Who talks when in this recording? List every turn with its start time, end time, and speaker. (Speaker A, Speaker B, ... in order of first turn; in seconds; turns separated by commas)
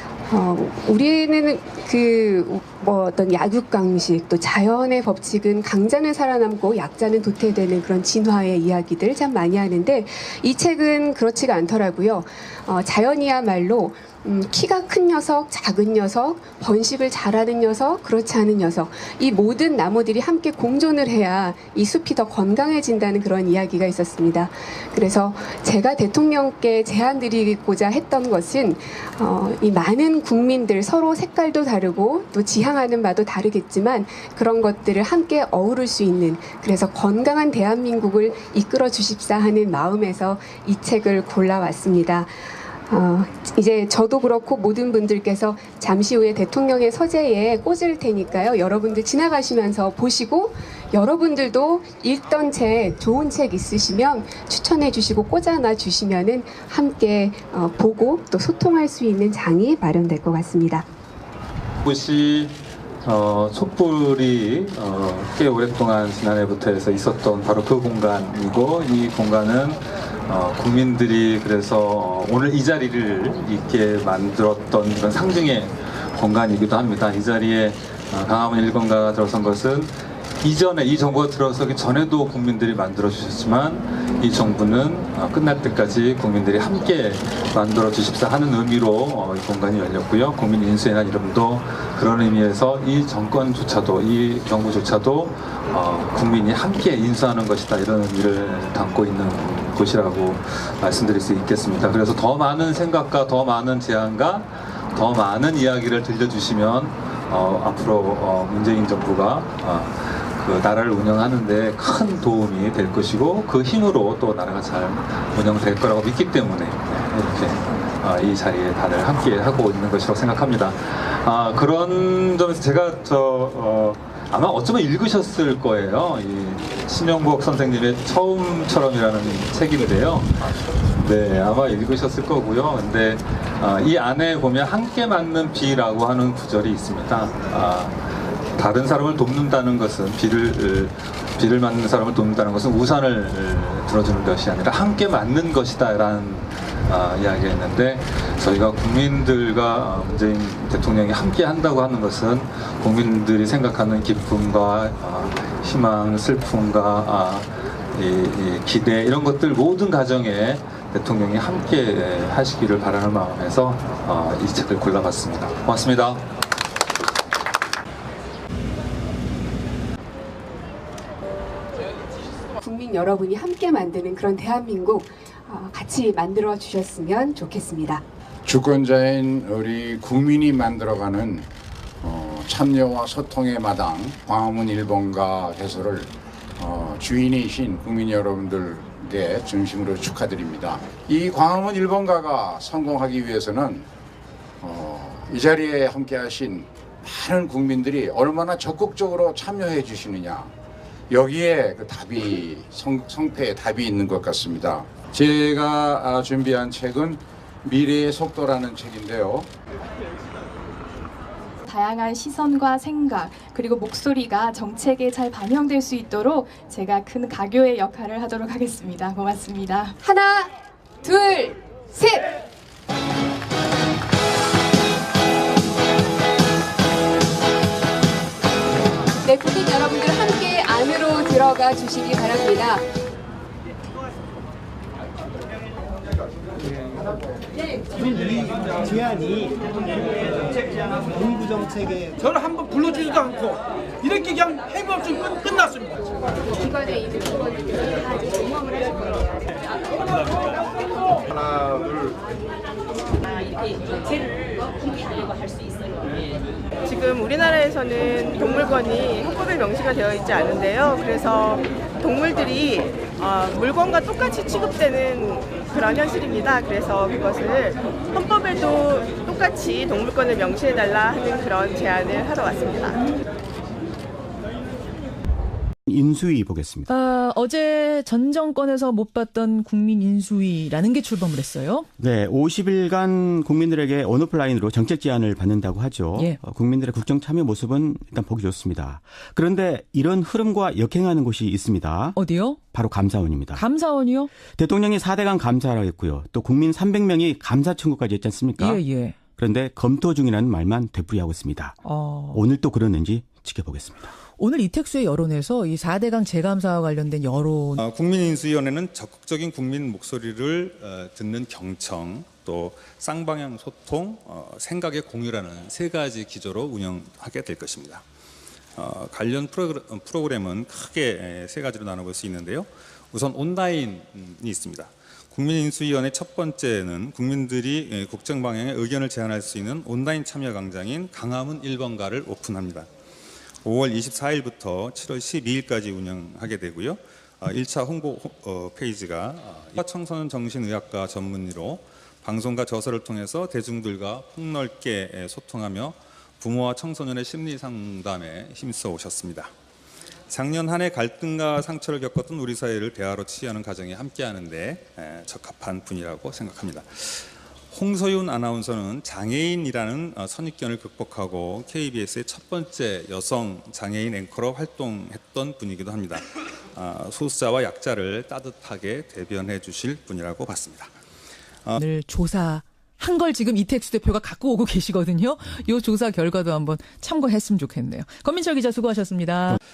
Speaker A: 0.3-60.9, Speaker B: 61.8-130.4, Speaker B: 131.0-166.2, Speaker A: 172.6-178.0, Speaker C: 178.4-181.5, Speaker C: 182.0-193.9, Speaker C: 194.6-200.5, Speaker C: 201.1-209.5, Speaker D: 211.7-220.0, Speaker A: 220.0-220.5, Speaker A: 221.0-222.3, Speaker A: 229.2-232.8, Speaker E: 238.2-239.5, Speaker E: 241.2-242.2, Speaker F: 242.3-245.9, Speaker D: 246.6-247.4, Speaker D: 248.5-248.8, Speaker F: 256.8-273.1, Speaker G: 275.9-276.9, Speaker H: 276.9-281.9, Speaker G: 282.0-292.2, Speaker H: 292.1-292.6, Speaker G: 292.7-293.6, Speaker H: 293.5-294.3, Speaker G: 294.4-298.8, Speaker H: 298.6-299.2, Speaker G: 299.4-304.1, Speaker H: 301.8-302.4, Speaker H: 304.4-307.8, Speaker B: 307.8-318.0, Speaker B: 318.8-332.9, Speaker B: 333.6-349.5, Speaker B: 350.3-370.9, Speaker H: 371.8-379.6